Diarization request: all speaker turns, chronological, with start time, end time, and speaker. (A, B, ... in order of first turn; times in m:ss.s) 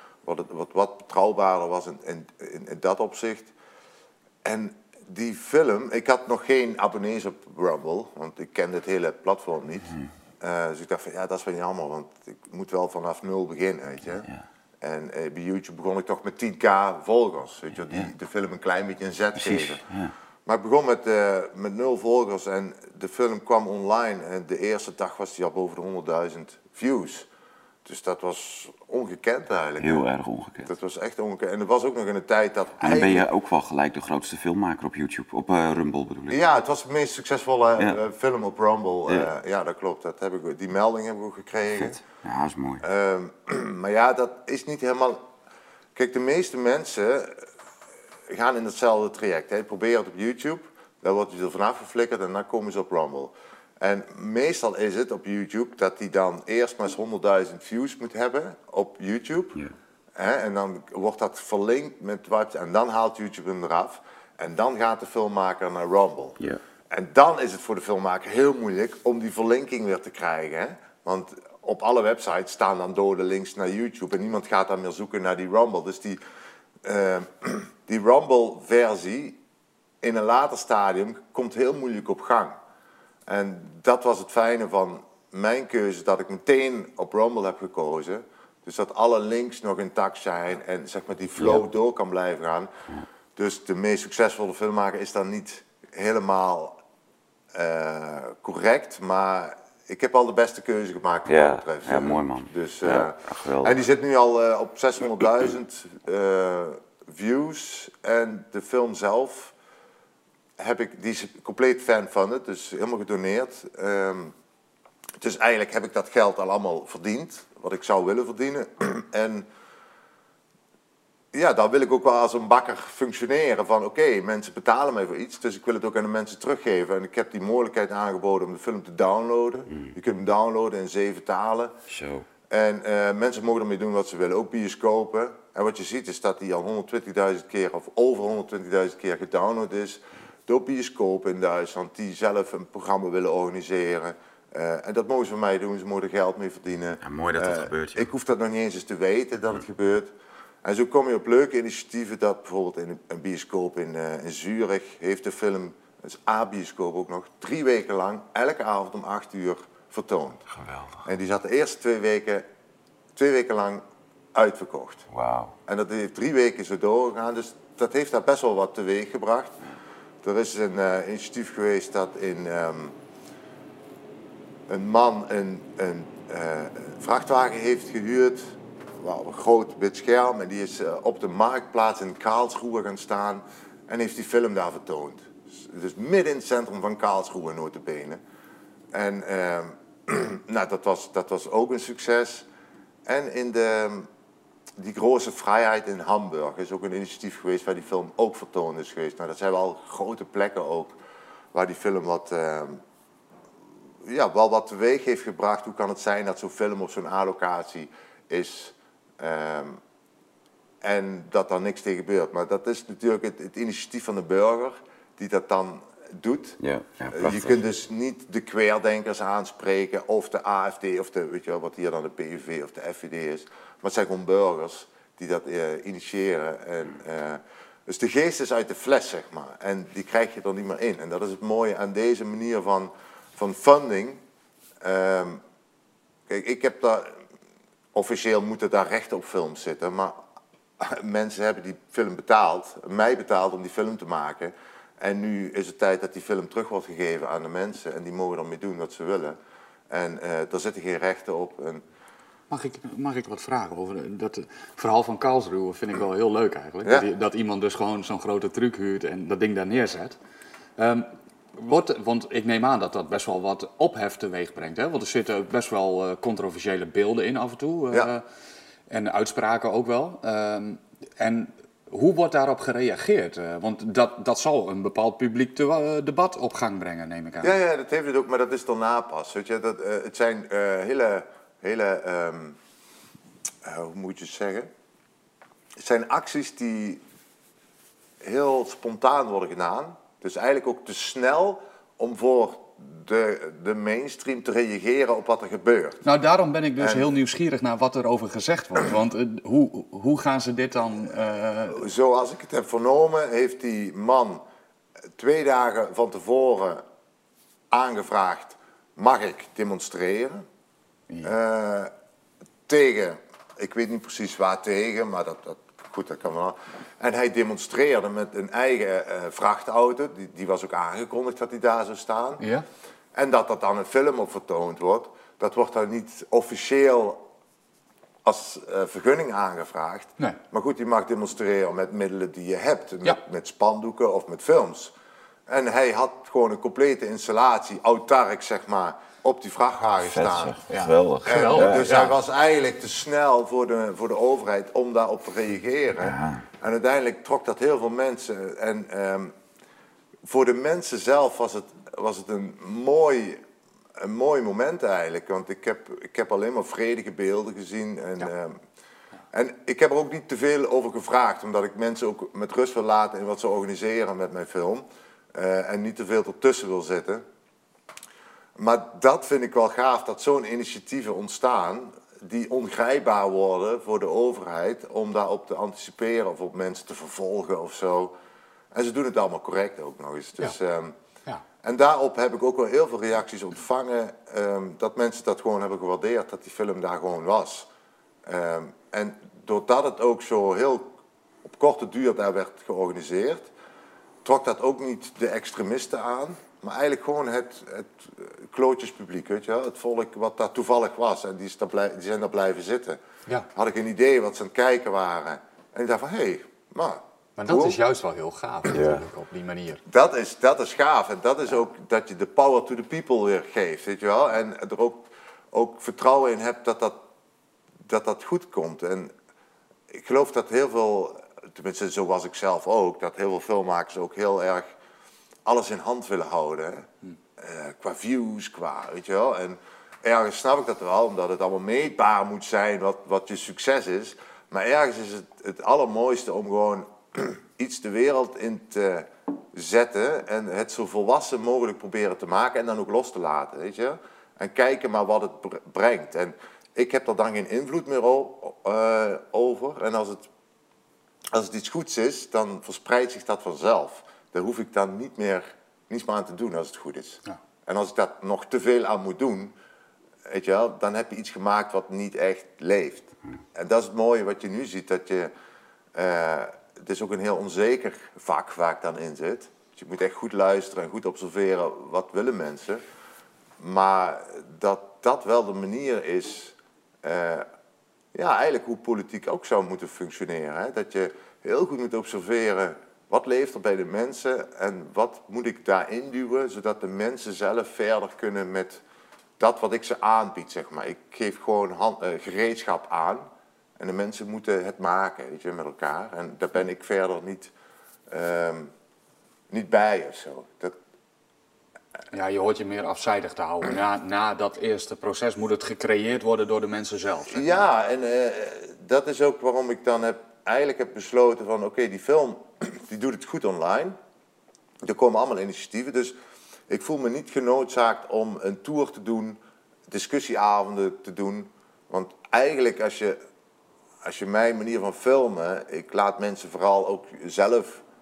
0:00.2-0:03.5 A
0:04.4-0:14.3 A
0:14.8-0:19.8 A
0:19.4-0:20.1 B
0:20.4-0:27.3 A
0:27.8-0:30.0 A
0:29.8-0:30.7 B
0:30.6-0:33.3 A
0:32.8-0:36.4 B
0:36.3-0:42.0 A
0:41.7-0:42.8 B
0:42.8-0:45.2 A
0:45.9-0:47.4 A
0:48.3-0:59.6 A
1:00.2-1:06.4 A
1:06.9-1:16.2 A
1:16.8-1:19.4 A
1:20.0-1:22.6 A
1:23.3-1:32.7 A
1:31.4-1:31.6 B
1:33.4-1:36.8 A
1:37.5-1:49.5 A
1:41.2-1:43.8 B
1:50.6-1:54.3 A
1:55.2-1:59.5 A
2:01.3-2:11.7 A
2:11.9-2:12.2 B
2:12.5-2:30.1 A
2:27.0-2:28.1 B
2:30.6-2:40.4 A
2:40.5-2:41.0 B
2:41.0-2:42.4 A
2:43.1-2:45.1 A
2:45.1-2:45.5 B
2:45.7-2:49.6 A
2:50.2-2:53.0 A
2:54.7-3:08.2 A
3:08.9-3:12.5 A
3:13.0-3:14.1 A
3:14.8-3:21.0 A
3:21.5-3:22.8 A
3:24.0-3:29.8 A
3:30.8-3:36.6 A
3:36.6-3:37.6 B
3:37.1-3:54.2 A
3:54.8-3:55.4 A
3:56.3-3:57.2 A
3:57.9-4:00.2 A
4:00.8-4:09.4 A
4:09.9-4:11.8 A
4:12.5-4:20.2 C
4:20.8-4:28.2 C
4:28.9-4:37.6 C
4:37.4-4:42.6 A
4:43.6-4:44.7 A
4:45.8-4:47.0 A
4:48.2-4:56.0 A
4:56.0-5:01.8 C
4:56.8-4:57.0 A
5:01.7-5:04.4 A
5:05.2-5:06.8 A
5:07.7-5:10.4 A
5:11.2-5:11.9 A
5:12.7-5:22.4 A
5:23.1-5:27.2 A
5:28.2-5:34.9 A
5:35.5-5:40.6 A
5:40.0-5:41.9 B
5:40.7-5:42.1 C
5:41.2-5:49.3 A
5:46.0-5:46.4 B
5:50.2-5:53.4 A
5:54.0-5:58.6 A
5:59.3-6:07.2 A
6:08.6-6:18.1 A
6:18.7-6:21.0 A
6:21.6-6:27.7 A
6:28.2-6:33.5 A
6:34.2-6:43.0 A
6:43.5-6:47.8 A
6:47.4-6:49.8 C
6:48.7-6:49.0 B
6:49.9-6:57.0 A
6:57.8-6:59.1 A
6:59.9-7:04.7 A
7:05.4-7:30.3 A
7:31.3-7:39.5 A
7:40.2-7:45.3 A
7:45.9-7:52.8 A
7:53.6-7:57.4 A
7:58.1-8:08.8 A
8:09.4-8:13.2 A
8:13.8-8:17.5 A
8:18.1-8:18.7 A
8:19.5-8:20.8 A
8:22.1-8:27.6 C
8:27.3-8:34.0 A
8:34.8-8:36.2 A
8:36.7-8:43.2 A
8:44.0-8:47.8 A